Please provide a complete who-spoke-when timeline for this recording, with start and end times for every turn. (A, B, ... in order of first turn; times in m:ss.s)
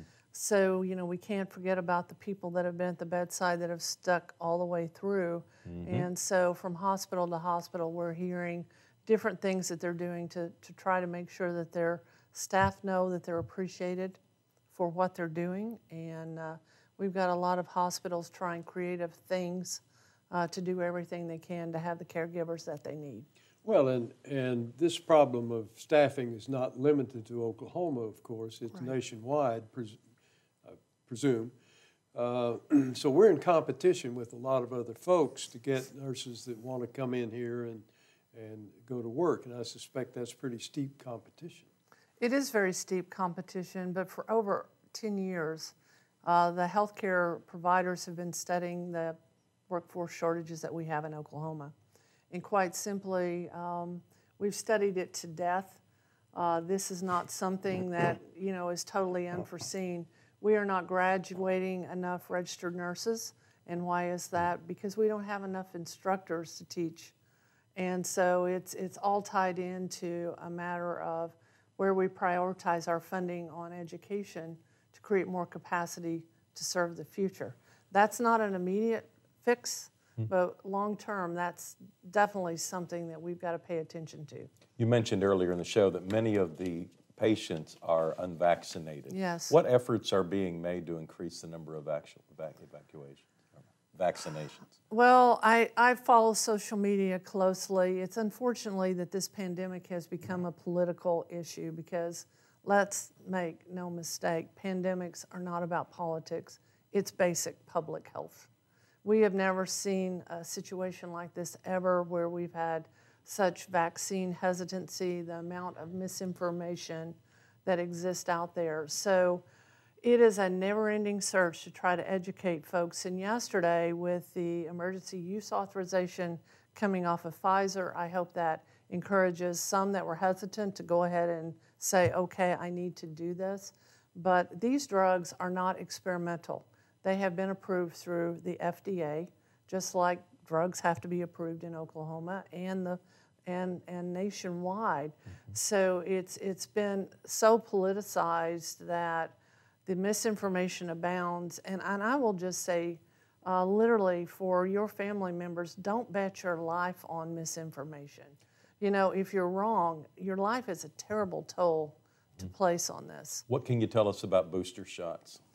0:00.3-0:14.2 A
0:05.6-0:06.1 B
0:14.7-0:23.3 A
0:23.6-0:30.0 C
0:30.6-0:31.5 C
0:32.1-0:41.7 C
0:42.2-0:45.7 A
0:46.2-0:49.2 A
0:49.7-0:51.7 A
0:52.3-0:55.8 A
0:56.3-1:07.1 A
1:07.8-1:24.5 A
1:24.8-1:33.3 B
1:29.1-1:29.6 A
1:33.9-1:34.7 B
1:34.9-1:48.5 A
1:49.0-1:59.4 A
2:00.0-2:43.4 A
2:43.5-2:45.4 B